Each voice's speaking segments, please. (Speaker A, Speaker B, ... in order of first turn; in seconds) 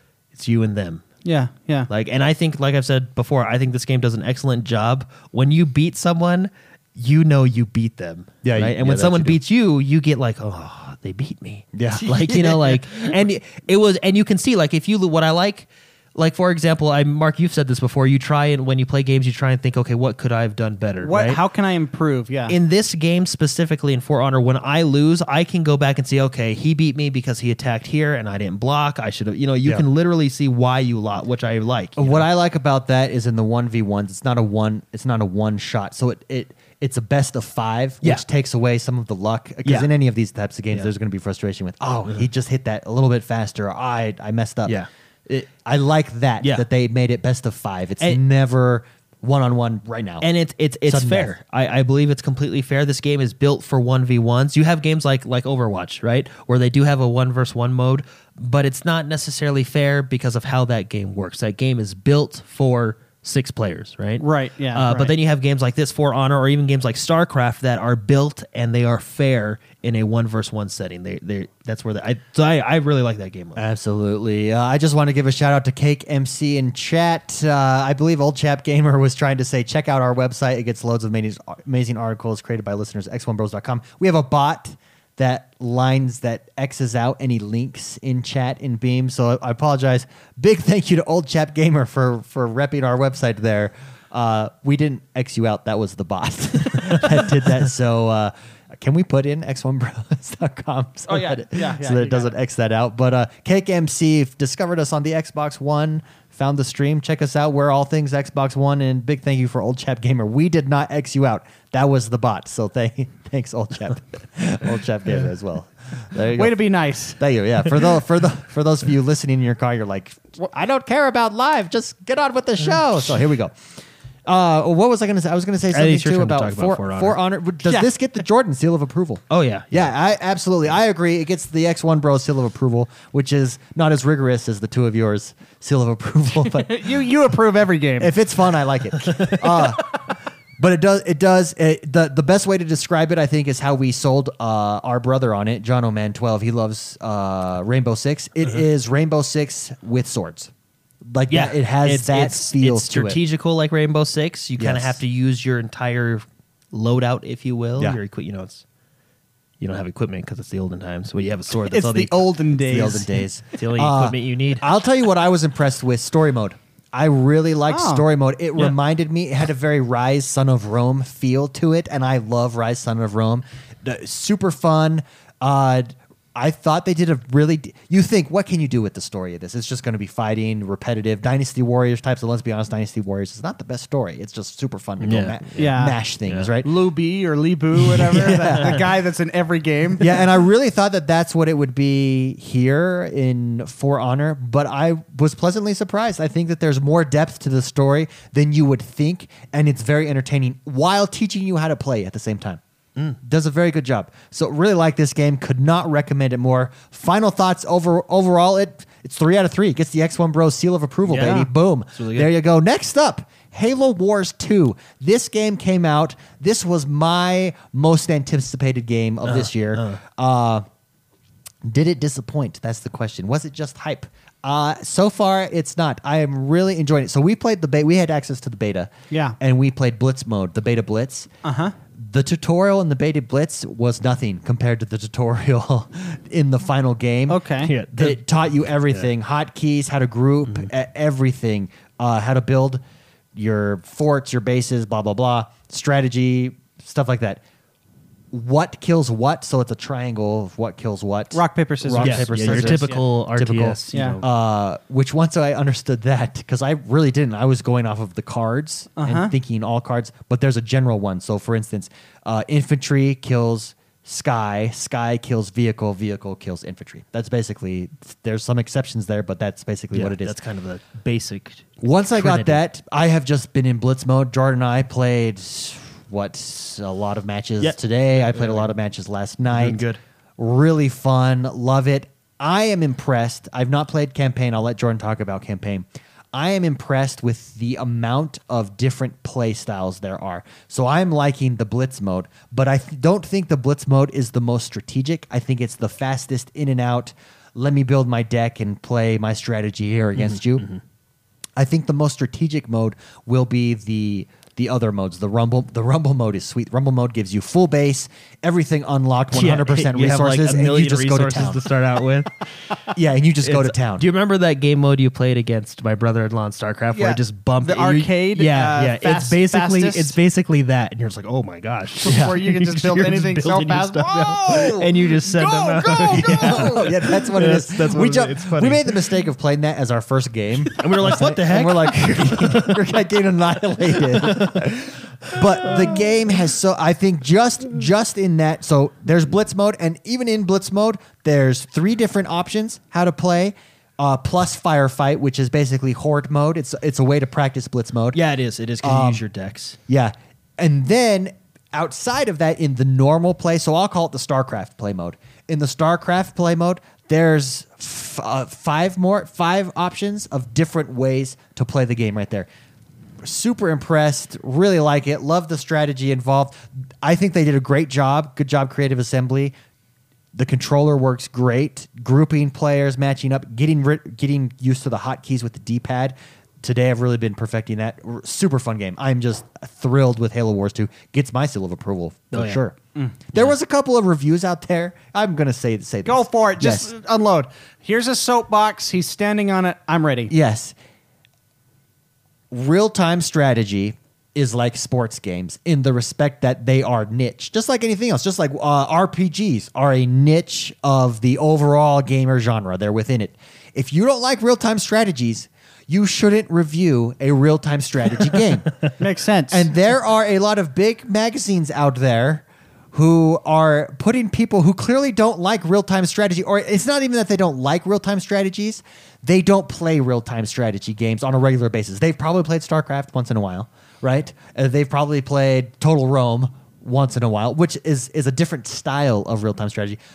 Speaker A: 0.3-1.0, 1.9-21.4, 22.5-32.2, 50.2-73.6, 125.7-127.2, 129.3-129.8, 151.3-158.6, 159.6-162.3, 163.6-164.7, 185.0-185.7, 211.1-211.4, 211.9-212.3, 219.2-220.0, 237.6-238.2, 252.0-254.3, 269.9-272.6, 277.6-278.7, 279.5-280.0, 300.2-300.8, 309.3-312.3, 313.4-329.1, 330.7-332.9, 334.0-336.0, 348.1-349.8, 382.3-382.6
Speaker B: 1.2-1.9, 21.0-22.6, 64.2-65.1, 101.1-102.3, 116.3-117.2, 136.5-138.2, 161.5-163.2, 167.7-168.0, 185.6-186.0, 186.6-190.2, 229.1-229.3, 231.4-231.7, 237.3-237.7, 251.3-253.0, 253.9-254.2, 259.0-259.3, 316.9-320.1, 322.0-326.9, 386.0-390.3, 409.0-409.7
Speaker C: 8.4-9.4, 11.7-13.1, 32.0-50.2, 50.9-51.3, 73.5-116.6, 117.2-123.6, 124.2-136.8, 138.0-140.0, 140.6-150.5, 151.1-153.2, 154.6-155.0, 162.6-186.7, 187.8-188.8, 190.0-202.6, 203.2-220.6, 221.6-231.3, 231.9-242.8, 243.3-247.4, 248.3-270.3, 271.8-279.8, 280.4-300.7, 301.6-311.6, 312.9-314.1, 326.1-348.2, 348.8-349.2, 349.9-362.5, 363.2-369.5, 370.3-382.7, 383.3-386.9, 390.3-390.7, 392.5-408.7, 409.5-430.0